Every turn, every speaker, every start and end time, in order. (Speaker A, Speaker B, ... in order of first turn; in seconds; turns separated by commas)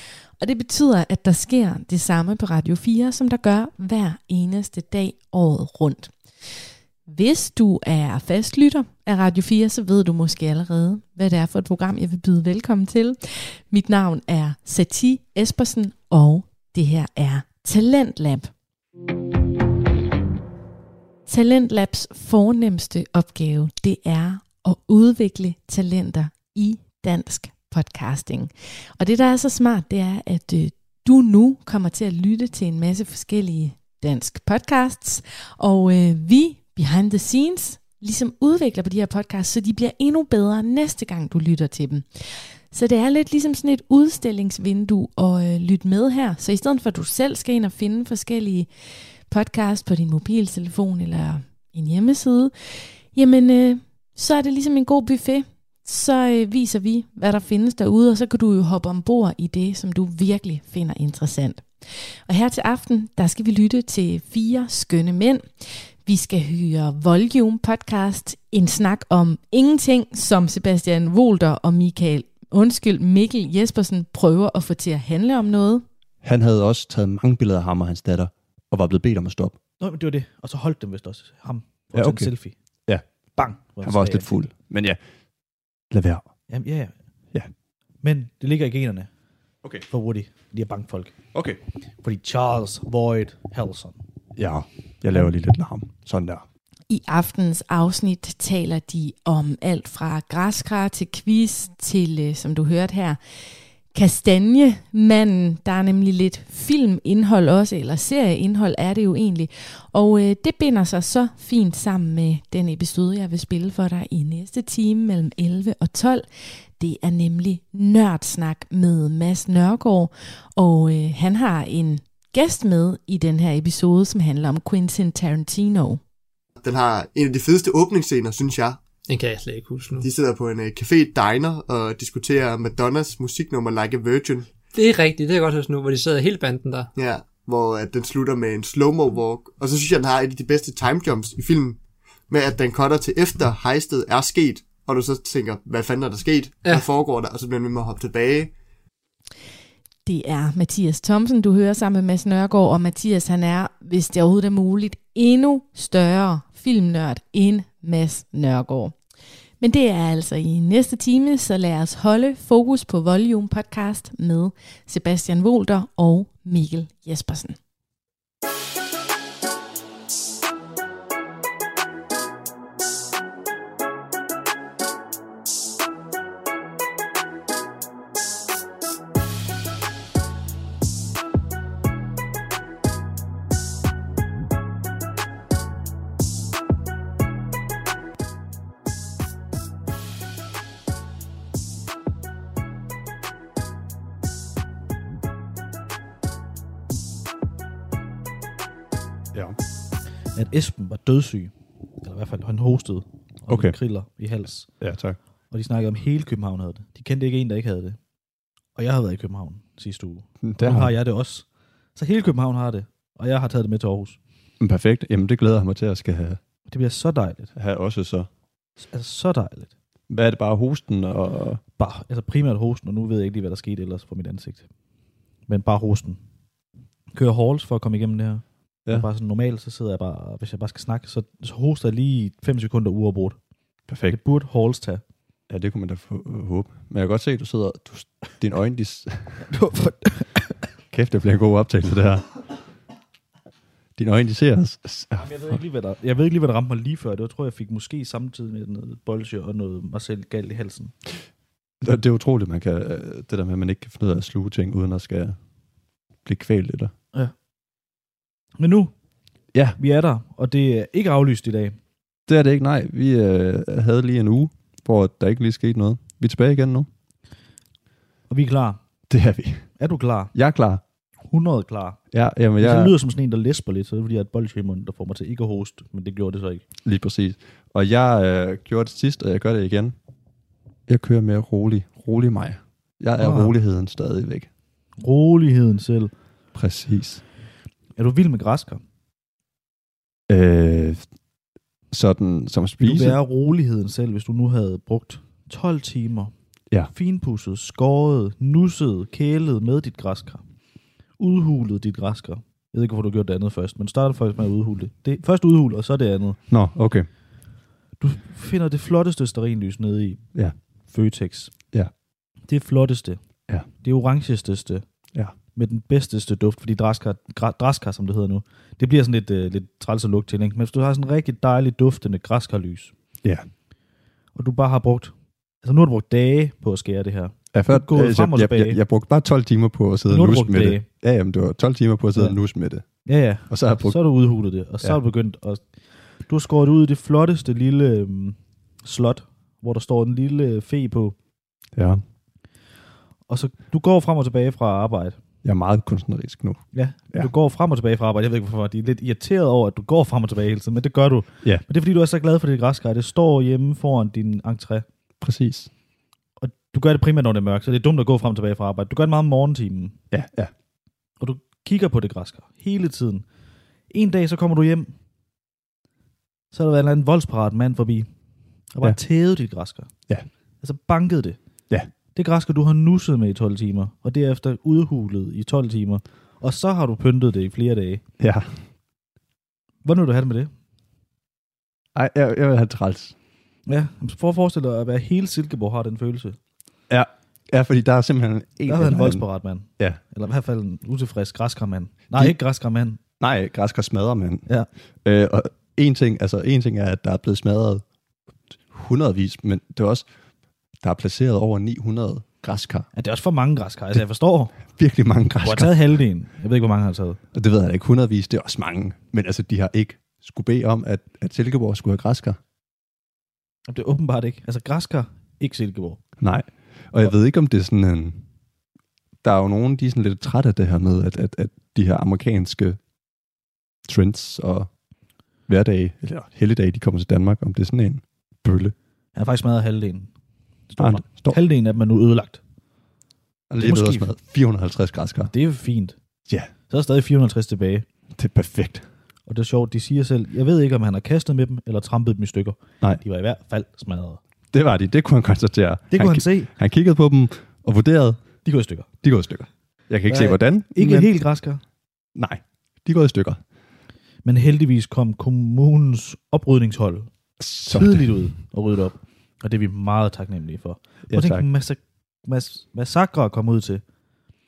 Speaker A: 0.4-6.1, Speaker A: 7.1-18.5, Speaker A: 21.3-42.1, Speaker A: 42.7-48.7, Speaker A: 49.3-61.6, Speaker A: 62.3-75.8, Speaker B: 76.2-79.6, Speaker C: 79.8-82.5, Speaker B: 82.0-82.3, Speaker C: 83.4-84.3, Speaker B: 83.8-85.0, Speaker B: 85.9-86.3, Speaker C: 86.5-86.9, Speaker C: 88.0-89.1, Speaker C: 89.9-91.2, Speaker B: 91.3-91.6, Speaker C: 92.0-94.0, Speaker B: 94.4-96.5, Speaker A: 96.9-103.2, Speaker A: 103.9-116.2, Speaker A: 116.8-126.0, Speaker D: 126.6-128.8, Speaker E: 129.1-130.1, Speaker D: 130.0-134.5, Speaker E: 134.7-136.9, Speaker D: 137.0-148.5, Speaker A: 150.1-158.9, Speaker A: 159.6-167.6, Speaker C: 200.3-204.7, Speaker B: 203.5-203.7, Speaker B: 204.8-205.2, Speaker C: 205.5-208.0, Speaker C: 208.8-211.4, Speaker B: 210.4-210.9, Speaker C: 212.0-214.2, Speaker B: 214.6-216.4, Speaker C: 216.7-217.5, Speaker B: 217.6-218.3, Speaker C: 218.8-219.7, Speaker B: 220.1-221.6, Speaker C: 221.8-224.7, Speaker C: 225.5-226.2, Speaker C: 227.1-233.4, Speaker B: 233.9-234.2, Speaker C: 234.1-235.0, Speaker B: 235.5-239.5, Speaker C: 239.5-240.5, Speaker B: 240.9-242.3, Speaker B: 244.0-245.5, Speaker C: 245.2-250.9, Speaker B: 251.8-255.4, Speaker B: 256.2-256.9, Speaker C: 258.6-258.9, Speaker C: 259.8-261.8, Speaker B: 262.3-266.9, Speaker C: 268.3-268.8, Speaker B: 269.1-269.6, Speaker C: 269.8-270.3, Speaker B: 270.3-270.8, Speaker C: 271.3-272.0, Speaker B: 272.1-272.9, Speaker C: 272.6-276.6, Speaker B: 276.8-279.9, Speaker B: 280.9-284.5, Speaker C: 283.2-283.5, Speaker C: 285.0-286.1, Speaker B: 286.6-287.2, Speaker C: 288.0-288.8, Speaker B: 290.3-291.0, Speaker B: 291.9-293.2, Speaker C: 292.8-296.3, Speaker C: 296.9-300.4, Speaker C: 301.2-306.4, Speaker B: 306.5-307.1, Speaker C: 308.0-310.2, Speaker C: 310.9-311.5, Speaker C: 312.5-313.2, Speaker C: 313.8-314.8, Speaker C: 315.5-322.9, Speaker C: 324.4-325.1, Speaker C: 325.6-328.8, Speaker B: 327.5-332.9, Speaker C: 330.1-330.9, Speaker C: 333.1-341.1, Speaker B: 333.5-334.0, Speaker B: 341.8-342.0, Speaker C: 343.3-345.2, Speaker B: 345.4-346.6, Speaker C: 346.7-354.9, Speaker B: 355.2-355.7, Speaker C: 356.4-360.0, Speaker B: 360.1-360.5, Speaker C: 361.2-363.2, Speaker C: 363.9-364.9, Speaker C: 366.5-368.1, Speaker C: 368.7-369.9, Speaker C: 370.6-371.4, Speaker C: 372.1-378.0, Speaker B: 378.2-378.6, Speaker C: 379.8-380.5, Speaker B: 381.9-383.1, Speaker C: 383.7-386.4, Speaker B: 386.9-389.2, Speaker C: 388.7-393.0, Speaker B: 393.2-394.4, Speaker B: 395.1-397.8, Speaker B: 398.7-400.1, Speaker B: 400.8-402.9, Speaker C: 402.9-404.6, Speaker B: 404.7-405.8, Speaker C: 405.4-407.2, Speaker B: 407.3-412.4, Speaker C: 413.7-416.0, Speaker B: 416.2-418.2, Speaker B: 419.2-422.8, Speaker B: 423.9-424.7, Speaker B: 425.5-428.8, Speaker C: 429.2-430.1, Speaker C: 430.7-432.4, Speaker B: 430.8-431.4, Speaker B: 433.5-435.3, Speaker C: 433.6-434.1, Speaker C: 435.3-435.9, Speaker C: 436.7-437.9, Speaker B: 438.2-438.9, Speaker C: 439.3-444.2, Speaker B: 444.5-448.2, Speaker C: 445.9-446.5, Speaker C: 448.4-448.9, Speaker B: 449.0-451.1, Speaker C: 450.1-451.6, Speaker B: 452.1-453.4, Speaker C: 454.2-457.1, Speaker B: 457.4-458.1, Speaker C: 457.7-463.8, Speaker B: 461.1-461.5